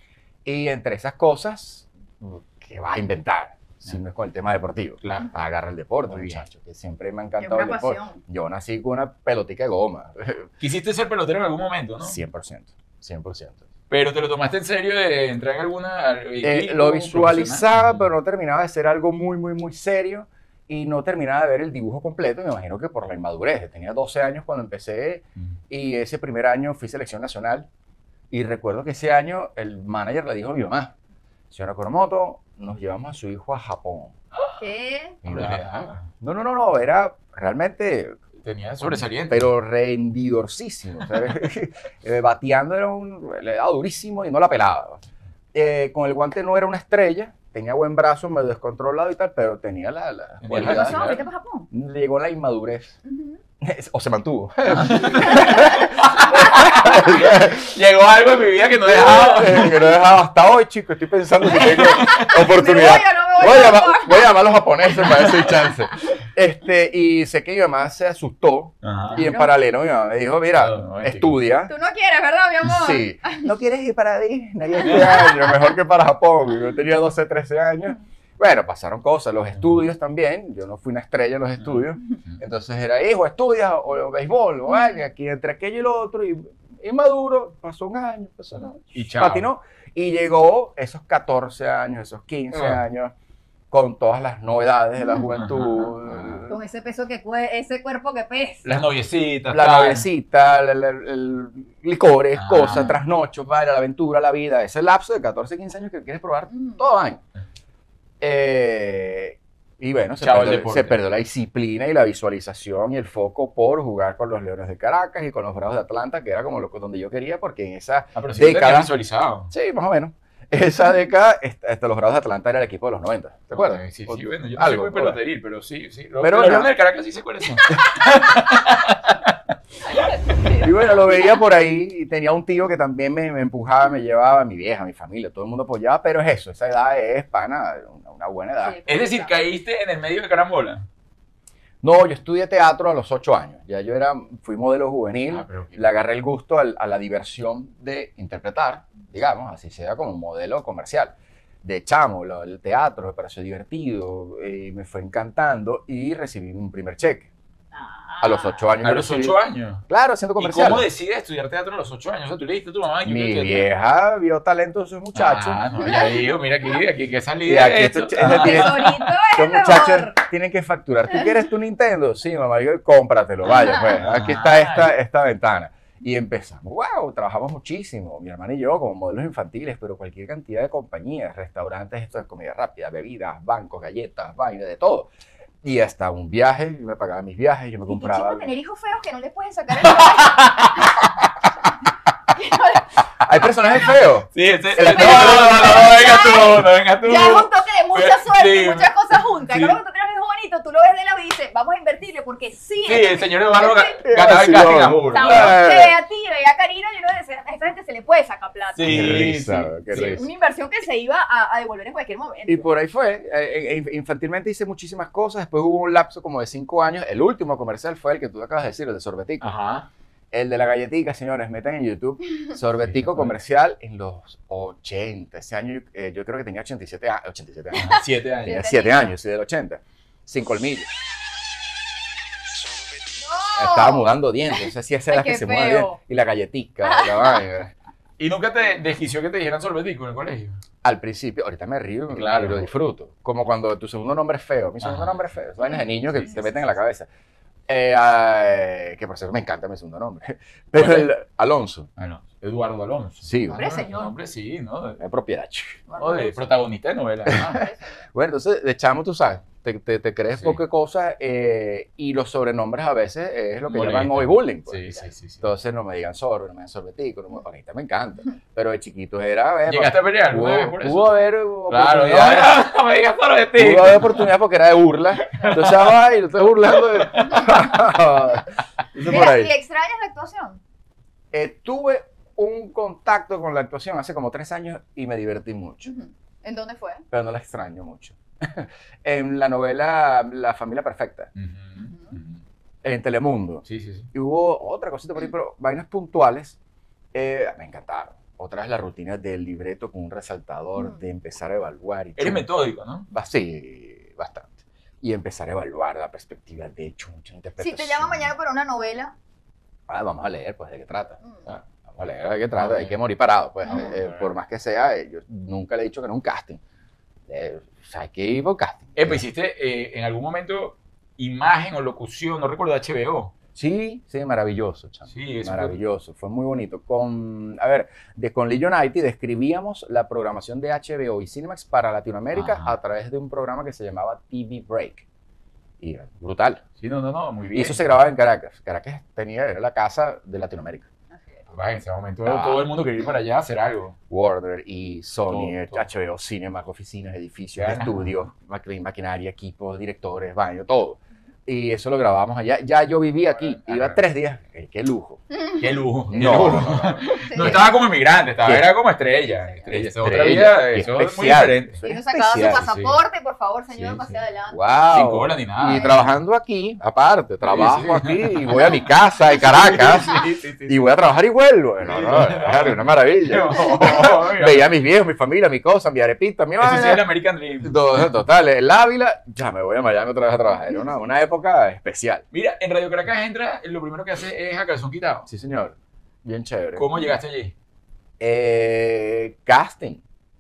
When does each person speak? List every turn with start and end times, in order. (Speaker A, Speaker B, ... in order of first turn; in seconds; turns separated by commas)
Speaker A: 0.5-10.5, Speaker B: 5.0-5.3, Speaker B: 6.1-6.5, Speaker C: 7.4-8.2, Speaker B: 10.6-12.2, Speaker A: 12.0-13.6, Speaker B: 13.9-18.1, Speaker A: 16.4-27.7, Speaker A: 28.3-30.9, Speaker A: 31.5-34.1, Speaker C: 34.6-35.2, Speaker A: 35.2-38.2, Speaker B: 35.3-36.0, Speaker B: 38.4-39.5, Speaker A: 38.8-45.0, Speaker A: 45.5-51.1, Speaker B: 50.4-51.2, Speaker C: 50.5-51.7, Speaker A: 51.7-53.0, Speaker C: 53.0-53.4, Speaker A: 53.6-57.7, Speaker B: 54.7-59.9, Speaker A: 58.8-71.7, Speaker B: 61.5-62.3, Speaker C: 61.8-64.3, Speaker B: 65.2-65.5, Speaker B: 68.8-69.3, Speaker C: 69.1-69.6, Speaker B: 70.6-71.4, Speaker C: 71.7-73.5, Speaker A: 72.7-93.1, Speaker C: 74.8-75.7, Speaker B: 88.9-89.5, Speaker B: 92.5-92.8, Speaker A: 93.7-96.6, Speaker B: 95.3-96.5, Speaker C: 96.5-98.7, Speaker B: 98.6-100.1, Speaker A: 99.5-107.2, Speaker B: 102.3-102.9, Speaker C: 106.5-106.8, Speaker A: 108.2-118.9, Speaker B: 110.2-111.0, Speaker B: 118.2-119.5, Speaker A: 119.5-125.2, Speaker B: 123.5-129.4, Speaker A: 126.2-126.7, Speaker C: 130.0-130.7, Speaker A: 130.6-138.8, Speaker C: 138.6-139.3, Speaker B: 138.9-140.9, Speaker A: 141.8-157.3, Speaker B: 145.3-145.9, Speaker C: 157.8-158.6, Speaker A: 158.2-159.4, Speaker B: 158.8-159.8, Speaker A: 159.9-160.9, Speaker B: 160.4-163.7, Speaker A: 163.1-165.8, Speaker B: 165.2-168.9, Speaker C: 165.8-166.2, Speaker A: 167.5-185.1, Speaker C: 168.2-170.2, Speaker B: 174.0-174.9, Speaker A: 185.6-188.5, Speaker C: 187.9-190.9, Speaker B: 189.8-191.1, Speaker C: 192.3-192.9, Speaker A: 193.2-196.1, Speaker B: 194.3-198.9, Speaker C: 194.8-204.0, Speaker B: 199.5-199.8, Speaker B: 202.8-205.6, Speaker A: 204.0-206.0, Speaker C: 205.1-209.2, Speaker B: 208.8-210.2, Speaker A: 208.9-210.3, Speaker C: 210.0-212.7, Speaker A: 212.5-219.5, Speaker B: 219.4-219.9, Speaker A: 220.3-230.9, Speaker B: 222.8-223.4, Speaker B: 227.7-228.6, Speaker C: 228.4-229.1, Speaker C: 233.2-236.0, Speaker A: 233.5-237.7, Speaker C: 236.8-237.4, Speaker B: 238.2-240.6, Speaker A: 240.8-247.1, Speaker B: 242.1-242.7, Speaker B: 244.8-245.2, Speaker A: 247.7-251.9, Speaker B: 250.8-251.1, Speaker B: 252.0-255.0, Speaker A: 253.2-253.7, Speaker C: 253.5-254.1, Speaker A: 255.0-255.8, Speaker C: 255.9-256.5, Speaker B: 256.0-257.6, Speaker A: 257.3-272.7, Speaker C: 257.5-257.8, Speaker B: 260.3-260.6, Speaker B: 263.7-265.4, Speaker B: 269.7-271.2, Speaker B: 271.7-274.3, Speaker A: 273.6-279.5, Speaker B: 275.2-276.0, Speaker B: 276.8-277.5, Speaker C: 279.0-280.6, Speaker A: 281.3-285.9, Speaker C: 285.9-287.0, Speaker A: 287.1-291.3, Speaker B: 291.4-292.4, Speaker A: 292.8-296.6, Speaker B: 293.6-294.1, Speaker A: 297.1-302.5, Speaker B: 302.2-303.1, Speaker A: 303.1-308.3, Speaker C: 307.6-309.1, Speaker A: 309.9-316.6, Speaker B: 312.6-313.0, Speaker C: 313.7-313.9, Speaker B: 313.7-314.3, Speaker A: 317.3-319.2, Speaker B: 319.0-323.3, Speaker A: 323.6-335.1, Speaker B: 325.1-325.8, Speaker B: 332.3-332.8, Speaker A: 335.8-336.6, Speaker B: 336.8-337.9, Speaker A: 337.5-340.9, Speaker C: 341.1-341.4, Speaker B: 341.5-344.0, Speaker A: 342.2-342.7, Speaker A: 344.1-355.2, Speaker B: 345.3-345.9, Speaker B: 347.6-348.1, Speaker B: 353.3-354.0, Speaker C: 355.3-355.7, Speaker B: 355.6-361.8, Speaker A: 356.1-357.7, Speaker C: 357.2-357.6, Speaker A: 358.4-358.7, Speaker A: 359.7-362.6, Speaker C: 361.8-364.7, Speaker B: 362.4-363.0, Speaker B: 363.8-364.1, Speaker A: 364.5-377.1, Speaker B: 364.9-365.9, Speaker C: 365.7-366.1, Speaker B: 367.4-370.9, Speaker B: 371.8-374.7, Speaker B: 376.6-377.9, Speaker A: 377.6-382.2, Speaker B: 382.3-385.3, Speaker A: 385.3-386.9, Speaker B: 386.8-387.5, Speaker A: 388.2-390.0